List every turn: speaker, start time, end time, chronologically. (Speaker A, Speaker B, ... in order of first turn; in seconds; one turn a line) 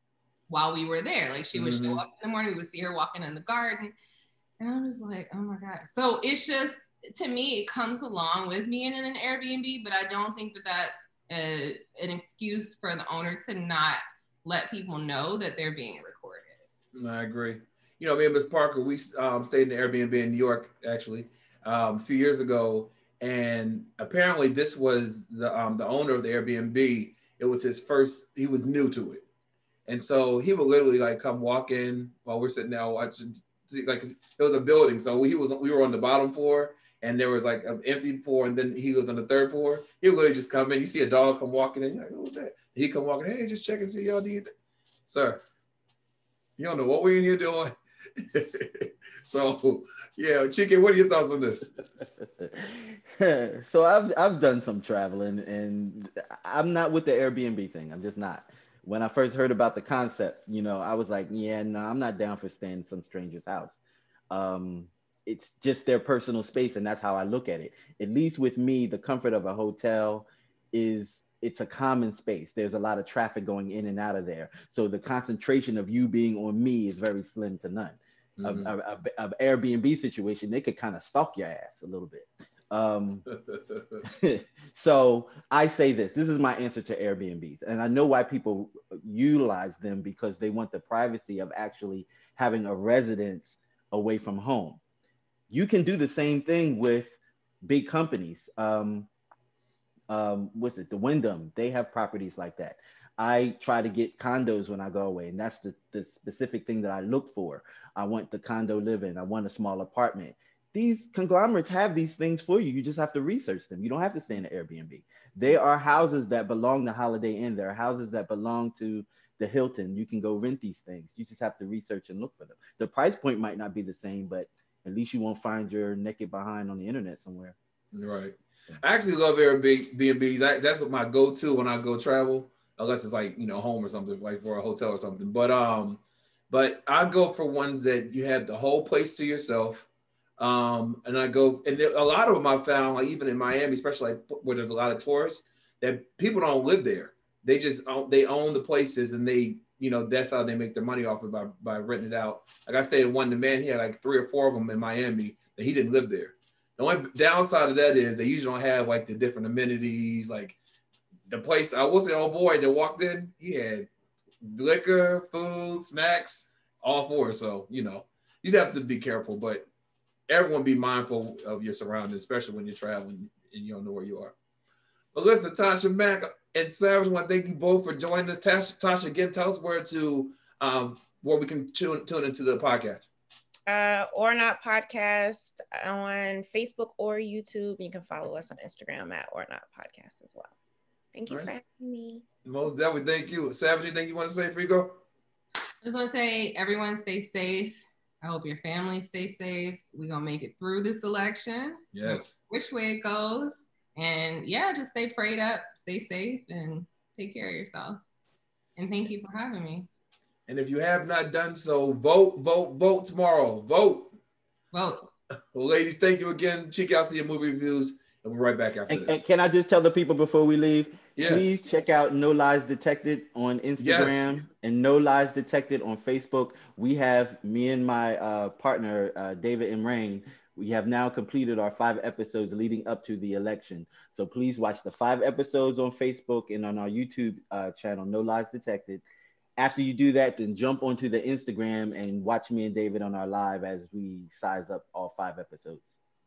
Speaker A: 0.5-3.9
Speaker B: 1.5-2.0
Speaker A: 4.6-16.6
Speaker B: 16.9-29.2
Speaker B: 29.9-44.5
Speaker B: 45.0-45.4
Speaker B: 46.6-51.6
Speaker C: 52.2-63.8
Speaker C: 64.3-83.2
Speaker B: 78.4-78.7
Speaker B: 83.4-84.0
Speaker C: 84.1-94.8
Speaker C: 95.5-99.1
Speaker C: 100.1-127.5
Speaker B: 127.9-139.9
Speaker B: 140.4-160.6
Speaker B: 161.3-163.9
Speaker B: 164.4-169.7
Speaker B: 170.3-174.3
Speaker B: 175.1-183.1
Speaker D: 183.7-190.5
Speaker D: 191.1-192.2
Speaker B: 191.3-191.6
Speaker B: 192.4-195.0
Speaker A: 195.8-208.0
Speaker B: 201.9-202.3
Speaker A: 208.8-209.9
Speaker B: 210.5-214.1
Speaker A: 214.7-215.1
Speaker B: 215.5-219.2
Speaker C: 218.9-239.0
Speaker B: 221.2-221.4
Speaker B: 223.8-224.3
Speaker C: 239.6-245.9